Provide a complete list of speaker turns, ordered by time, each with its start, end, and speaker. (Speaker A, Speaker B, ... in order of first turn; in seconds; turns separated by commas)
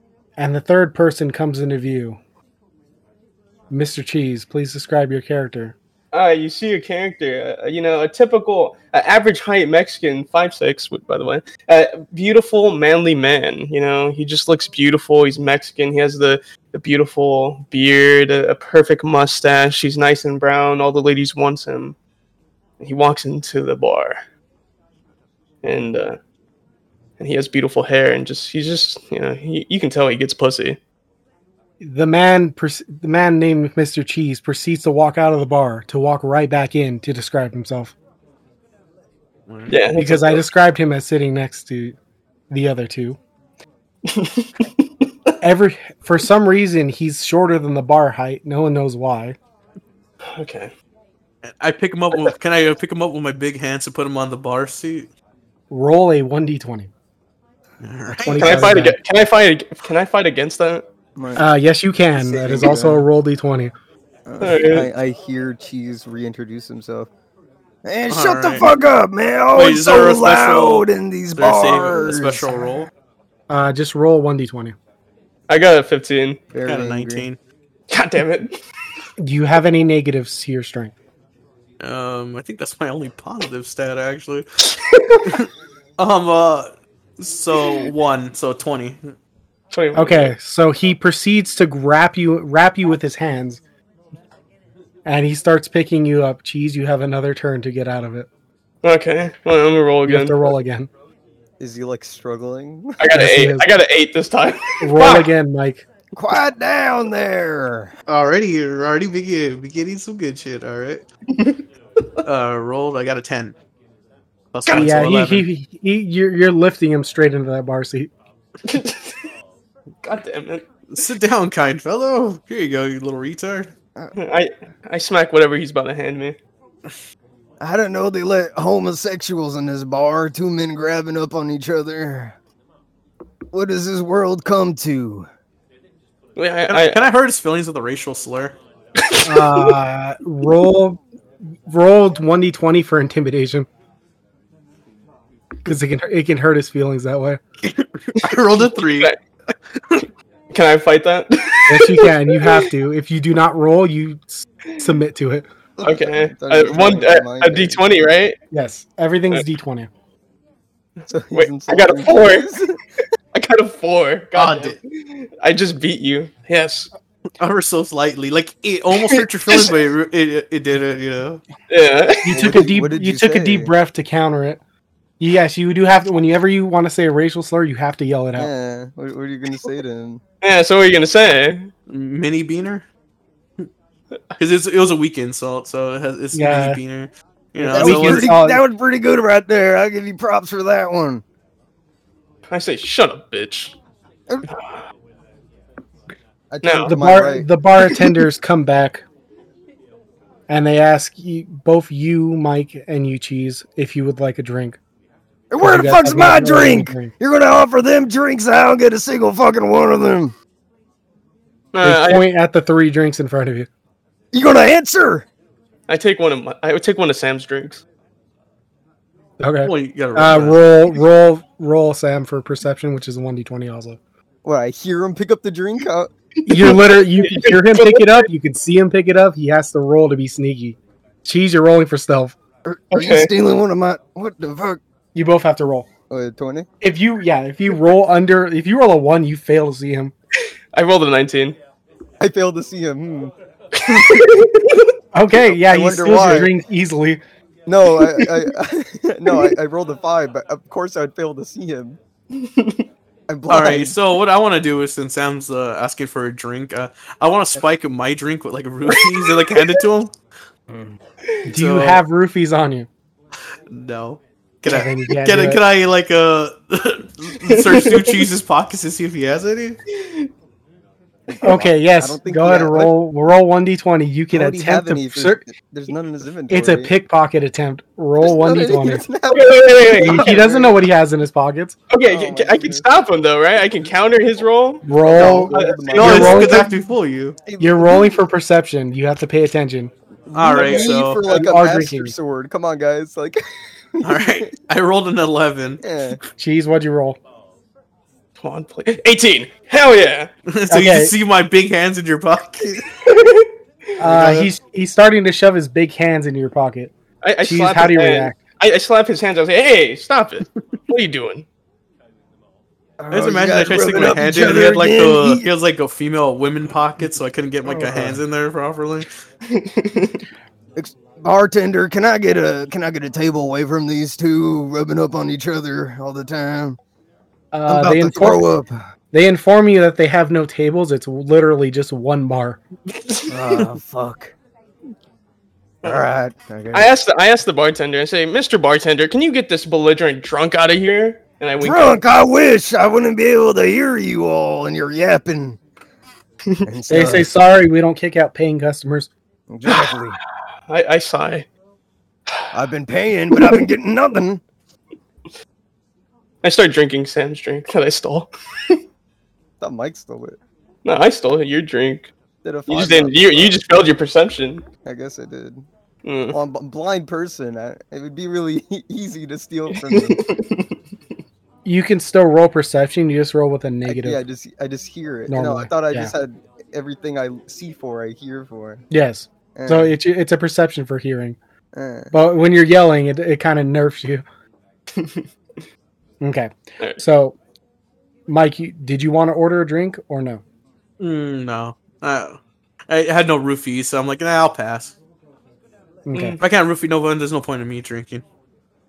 Speaker A: 0.4-2.2, Speaker A: 3.7-5.8, Speaker B: 6.1-22.0, Speaker B: 22.8-24.2, Speaker B: 25.6-26.2, Speaker B: 27.2-30.8, Speaker A: 31.8-37.9, Speaker C: 39.5-39.8, Speaker B: 39.7-40.4, Speaker A: 40.0-42.0, Speaker A: 42.5-43.2, Speaker B: 44.1-44.9, Speaker A: 45.4-49.4, Speaker B: 50.2-50.7, Speaker C: 51.4-55.1, Speaker A: 55.7-56.9, Speaker C: 57.8-58.8, Speaker A: 58.1-59.0, Speaker B: 58.3-60.8, Speaker D: 61.2-61.4, Speaker A: 61.4-63.7, Speaker D: 62.1-63.0, Speaker D: 64.3-67.1, Speaker B: 64.4-64.9, Speaker D: 67.8-72.6, Speaker C: 68.1-68.7, Speaker C: 69.5-72.9, Speaker A: 73.5-74.8, Speaker B: 75.5-76.4, Speaker D: 76.5-77.3, Speaker C: 76.7-77.4, Speaker B: 77.9-78.6, Speaker A: 79.2-80.9, Speaker C: 81.8-84.5, Speaker B: 84.8-85.3, Speaker C: 85.3-89.2, Speaker B: 89.7-90.3, Speaker A: 90.0-93.6, Speaker A: 95.0-98.3, Speaker B: 98.8-100.5, Speaker A: 100.1-100.9, Speaker D: 101.6-103.0, Speaker B: 103.0-105.3, Speaker A: 103.1-103.7, Speaker A: 104.8-105.8, Speaker D: 106.1-107.9, Speaker C: 108.1-111.1, Speaker C: 112.2-113.6, Speaker C: 114.5-115.5, Speaker B: 114.7-114.9, Speaker A: 114.7-118.1, Speaker B: 118.7-119.3, Speaker B: 120.0-120.7, Speaker C: 120.9-123.7, Speaker B: 124.2-126.4, Speaker D: 127.6-132.4, Speaker D: 133.5-135.3, Speaker B: 136.4-137.0, Speaker C: 136.7-138.6, Speaker B: 139.0-139.7, Speaker A: 139.2-141.0, Speaker A: 141.7-143.7, Speaker A: 145.7-147.4, Speaker C: 147.6-150.0, Speaker B: 148.2-149.2, Speaker B: 150.5-152.7, Speaker A: 151.7-155.5, Speaker D: 155.8-158.1, Speaker B: 155.8-158.4, Speaker A: 158.5-159.9, Speaker B: 161.0-162.5, Speaker D: 161.1-162.8, Speaker B: 163.3-166.9, Speaker C: 164.3-164.8, Speaker C: 167.4-171.4, Speaker B: 169.0-169.8, Speaker B: 171.7-172.3, Speaker A: 172.2-174.6, Speaker D: 172.3-173.7, Speaker A: 175.2-178.5, Speaker D: 178.3-180.2, Speaker B: 180.4-181.7, Speaker C: 181.9-182.9, Speaker C: 184.4-188.3, Speaker A: 186.3-186.8, Speaker A: 187.6-188.6, Speaker D: 187.6-191.2, Speaker B: 192.5-193.8, Speaker B: 194.5-194.9, Speaker D: 196.5-197.5, Speaker B: 196.6-196.9, Speaker A: 196.9-199.0, Speaker A: 200.5-204.8, Speaker D: 205.5-210.3, Speaker A: 205.6-207.1, Speaker B: 211.7-212.3, Speaker A: 211.8-213.7, Speaker D: 214.3-215.3, Speaker B: 215.9-217.8, Speaker A: 219.4-224.0, Speaker C: 219.6-220.7, Speaker D: 224.4-226.1, Speaker B: 226.4-228.3, Speaker A: 226.5-232.4, Speaker D: 232.6-234.8, Speaker B: 232.9-233.3, Speaker A: 235.1-235.9, Speaker D: 236.1-236.7, Speaker A: 236.8-240.1, Speaker B: 240.4-241.6, Speaker D: 242.2-243.3, Speaker B: 243.8-244.9, Speaker A: 245.1-247.2, Speaker D: 245.3-246.5, Speaker D: 247.7-252.0, Speaker B: 252.3-252.9, Speaker D: 253.3-254.0, Speaker C: 253.5-260.2, Speaker B: 258.9-259.6, Speaker D: 260.7-261.0, Speaker A: 261.5-262.9, Speaker C: 261.6-262.0, Speaker C: 263.7-269.8, Speaker A: 264.7-265.6, Speaker B: 267.5-268.3, Speaker B: 269.9-270.3, Speaker D: 271.3-272.9, Speaker A: 271.4-275.4, Speaker D: 274.3-276.9, Speaker A: 276.5-279.1, Speaker D: 278.2-280.8, Speaker B: 279.3-280.5, Speaker A: 280.0-281.8, Speaker B: 281.9-286.5, Speaker D: 282.1-282.9, Speaker A: 284.9-286.7, Speaker D: 285.0-286.7, Speaker C: 285.9-287.4, Speaker D: 287.5-288.2, Speaker A: 287.6-289.9, Speaker D: 290.3-294.5, Speaker C: 290.3-291.2, Speaker A: 290.7-292.2, Speaker C: 294.0-295.8, Speaker D: 295.8-296.2, Speaker A: 296.4-297.2, Speaker B: 298.4-300.3, Speaker C: 300.5-302.9, Speaker A: 300.7-301.1, Speaker B: 303.0-303.5, Speaker A: 304.0-308.4, Speaker D: 304.0-304.5, Speaker B: 307.2-311.5, Speaker D: 313.0-315.5, Speaker C: 313.1-319.1, Speaker D: 317.7-318.2, Speaker B: 319.5-320.2, Speaker D: 320.8-326.8, Speaker A: 327.5-328.5, Speaker D: 327.7-328.8, Speaker A: 329.1-332.6, Speaker B: 333.0-333.6, Speaker D: 333.3-334.3, Speaker D: 335.8-336.9, Speaker B: 336.7-342.0, Speaker D: 341.6-345.6, Speaker B: 346.5-347.2, Speaker D: 346.7-347.3, Speaker A: 346.9-349.1, Speaker D: 349.5-350.2, Speaker B: 349.7-350.0, Speaker B: 350.7-351.5, Speaker D: 352.5-354.4, Speaker B: 353.3-353.6, Speaker B: 356.4-358.8, Speaker D: 359.6-360.4, Speaker B: 360.9-362.1, Speaker D: 362.4-363.6, Speaker B: 362.7-364.6, Speaker D: 364.9-365.6, Speaker B: 366.0-366.4, Speaker D: 366.3-370.2, Speaker B: 369.7-370.8, Speaker A: 371.6-374.2, Speaker D: 373.9-378.8, Speaker A: 375.3-376.1, Speaker A: 378.9-381.4, Speaker D: 379.6-380.0, Speaker D: 381.7-382.2, Speaker A: 382.1-384.2, Speaker B: 384.9-385.6, Speaker A: 386.2-387.4, Speaker A: 388.3-390.4, Speaker C: 391.0-395.0, Speaker A: 396.1-396.4, Speaker B: 396.1-396.4, Speaker C: 396.4-398.2